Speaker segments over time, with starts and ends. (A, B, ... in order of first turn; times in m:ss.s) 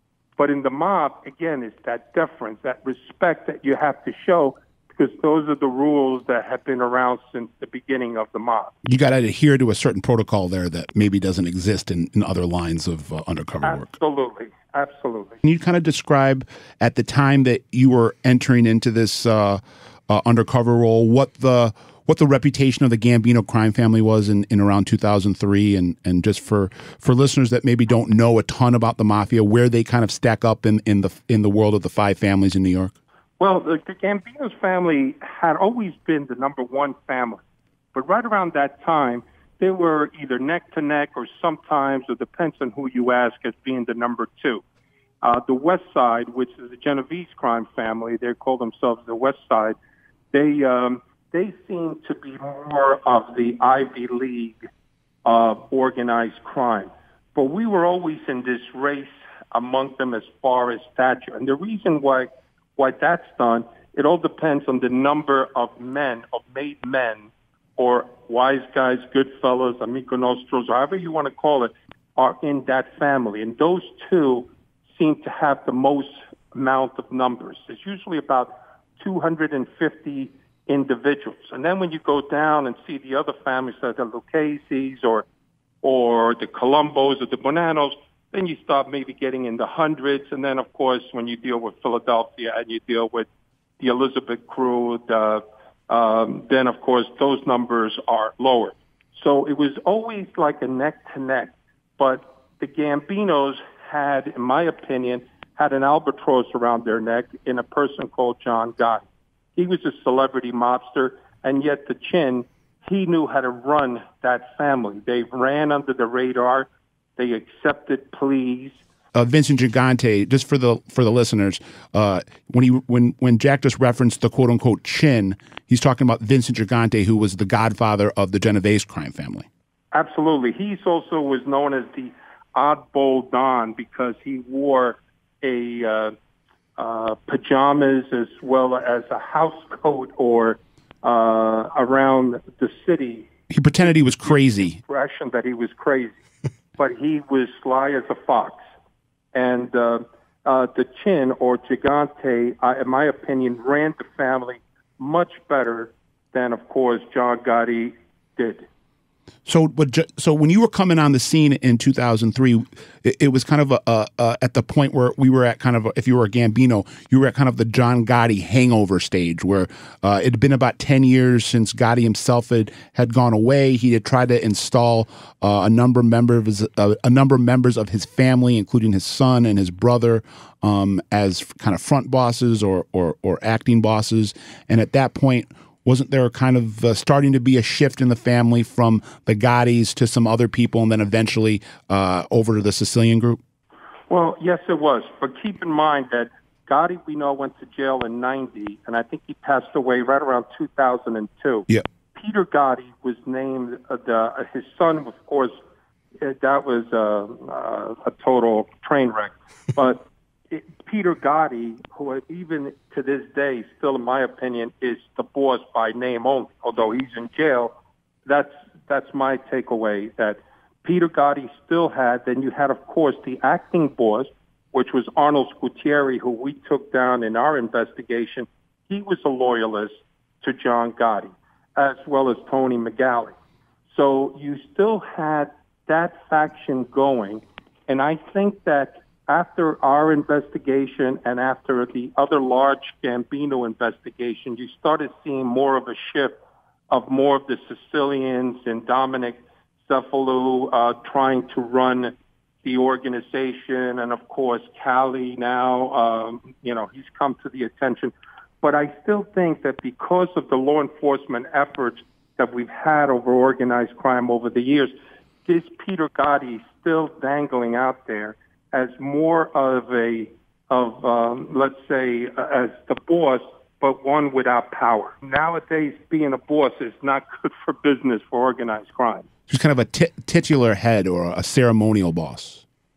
0:00.4-0:08.7 A
0:08.8-0:13.9 B
0:13.6-0:15.4 A
0:15.4-0:32.9 B
0:33.4-0:37.4 A
0:37.9-0:44.6 A
0:45.2-0:49.8 A
0:50.3-0:54.6 A
0:55.2-1:25.3 A
1:25.8-1:33.3 A
1:33.8-1:49.0 A
1:49.6-1:58.8 A
1:59.1-2:09.5 B
2:09.9-2:16.1 A
2:16.8-2:23.3 A
2:23.5-2:24.8 B
2:23.8-2:26.2 A
2:26.8-2:28.6 A
2:29.3-2:38.7 A
2:39.5-3:13.4 B
3:14.1-3:25.6 A
3:26.2-3:37.7 A
3:38.3-3:53.3 A
3:53.9-4:24.9 A
4:25.5-4:39.3 A
4:39.5-4:42.6 B